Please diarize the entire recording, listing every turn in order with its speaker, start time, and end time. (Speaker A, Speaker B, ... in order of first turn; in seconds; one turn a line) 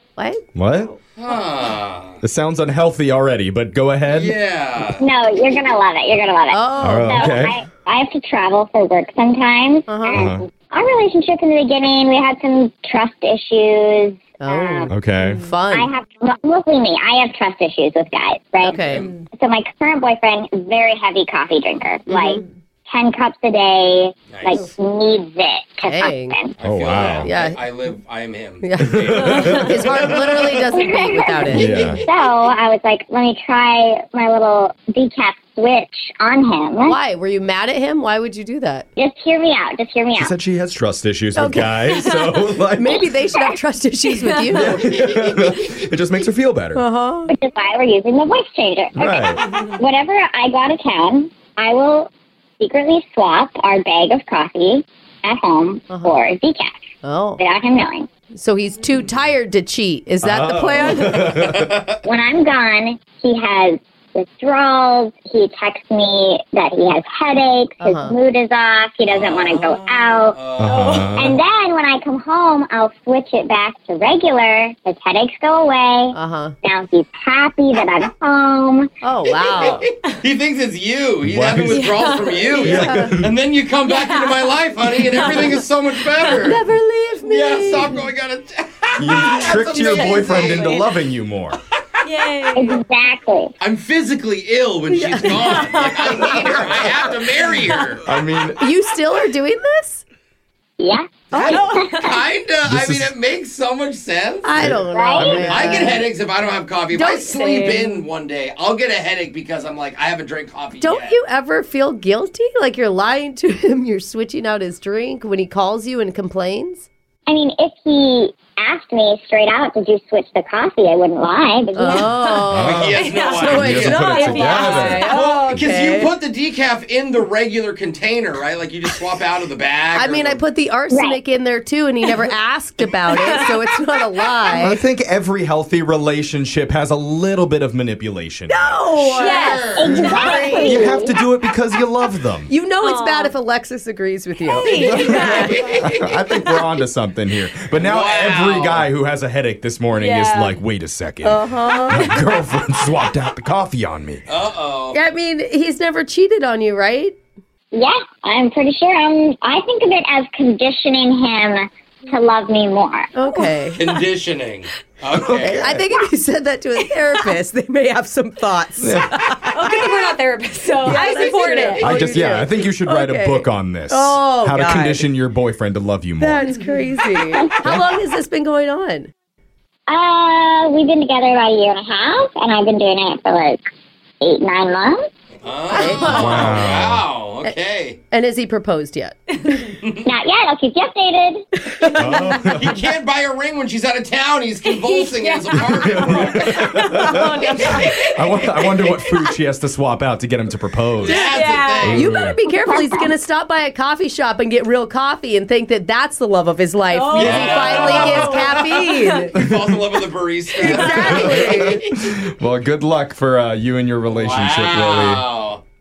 Speaker A: 0.2-0.4
Speaker B: 0.5-0.9
Speaker C: 1.1-2.2
Speaker B: 2.2-4.4
Speaker C: 4.1-5.1
Speaker D: 5.0-14.9
Speaker A: 6.5-7.3
Speaker B: 6.8-7.6
Speaker A: 9.9-10.3
Speaker B: 10.1-10.4
Speaker A: 14.4-15.9
Speaker B: 14.9-15.4
Speaker D: 15.7-18.8
Speaker A: 18.6-19.1
Speaker C: 18.6-19.2
Speaker D: 19.3-26.5
Speaker A: 22.1-22.4
Speaker C: 24.3-24.6
Speaker A: 25.9-26.4
Speaker C: 26.6-30.7
Speaker B: 26.6-27.3
Speaker A: 27.1-27.6
Speaker A: 28.6-31.7
Speaker B: 28.8-30.0
Speaker E: 29.2-29.6
Speaker D: 30.7-37.0
Speaker B: 31.5-32.0
Speaker A: 36.9-38.9
Speaker D: 39.0-40.3
Speaker B: 40.2-43.1
Speaker A: 41.3-41.8
Speaker E: 42.0-42.3
Speaker A: 42.7-45.0
Speaker B: 44.5-46.8
Speaker A: 46.7-47.3
Speaker D: 47.3-56.7
Speaker B: 49.0-49.4
Speaker A: 55.9-56.2
Speaker A: 57.0-57.4
Speaker D: 57.4-58.1
Speaker A: 58.3-61.3
Speaker B: 60.2-61.8
Speaker C: 61.2-62.0
Speaker D: 62.0-70.4
Speaker A: 67.8-68.1
Speaker C: 69.0-71.1
Speaker B: 70.6-71.4
Speaker E: 70.6-71.1
Speaker D: 71.1-78.9
Speaker A: 76.1-76.5
Speaker A: 79.0-79.8
Speaker C: 79.4-86.6
Speaker B: 81.2-82.0
Speaker E: 81.7-82.9
Speaker B: 82.6-83.3
Speaker A: 82.7-83.1
Speaker E: 83.8-84.5
Speaker E: 85.1-85.6
Speaker A: 86.4-88.0
Speaker C: 87.2-90.8
Speaker B: 89.0-91.6
Speaker E: 89.8-90.9
Speaker E: 92.0-92.8
Speaker D: 92.5-93.5
Speaker C: 93.6-98.0
Speaker A: 94.9-95.6
Speaker E: 95.4-96.6
Speaker B: 98.0-98.6
Speaker A: 98.6-100.0
Speaker D: 100.8-102.0
Speaker E: 101.3-102.2
Speaker C: 101.3-111.2
Speaker B: 102.6-103.1
Speaker A: 104.4-106.1
Speaker B: 104.5-105.9
Speaker D: 104.9-105.3
Speaker A: 106.9-108.0
Speaker A: 110.8-116.8
Speaker D: 117.3-122.1
Speaker A: 121.7-126.1
Speaker E: 122.0-125.5
Speaker B: 122.5-125.1
Speaker C: 122.5-130.4
Speaker A: 129.9-134.8
Speaker D: 130.9-131.2
Speaker E: 133.1-133.8
Speaker B: 134.5-138.8
Speaker A: 138.5-140.9
Speaker C: 139.0-140.5
Speaker E: 139.2-140.6
Speaker D: 139.7-141.1
Speaker B: 140.6-142.5
Speaker A: 142.5-145.7
Speaker E: 142.8-143.3
Speaker E: 144.5-145.7
Speaker B: 144.7-154.2
Speaker C: 145.1-146.0
Speaker C: 147.8-148.9
Speaker E: 149.9-150.6
Speaker A: 151.2-152.1
Speaker C: 154.3-155.0
Speaker A: 154.9-157.2
Speaker D: 157.7-163.1
Speaker A: 163.1-163.8
Speaker E: 163.3-163.7
Speaker C: 163.7-165.6
Speaker B: 165.1-165.8
Speaker A: 165.4-169.9
Speaker B: 168.8-169.2
Speaker E: 169.5-172.0
Speaker A: 170.8-175.1
Speaker B: 171.8-176.5
Speaker A: 176.2-179.1
Speaker B: 177.6-177.9
Speaker D: 179.9-183.6
Speaker D: 184.2-185.0
Speaker C: 185.4-188.0
Speaker A: 185.7-186.6
Speaker B: 185.9-187.0
Speaker A: 188.1-189.7
Speaker D: 190.0-191.5
Speaker A: 191.7-192.3
Speaker B: 191.9-192.8
Speaker C: 192.4-196.8
Speaker E: 194.7-199.1
Speaker B: 195.8-202.4
Speaker C: 201.0-202.1
Speaker E: 201.0-202.0
Speaker A: 201.9-209.3
Speaker E: 206.9-209.2
Speaker B: 207.2-208.2
Speaker C: 207.2-212.1
Speaker B: 209.4-209.7
Speaker A: 210.6-211.8
Speaker B: 210.7-215.2
Speaker C: 214.1-215.6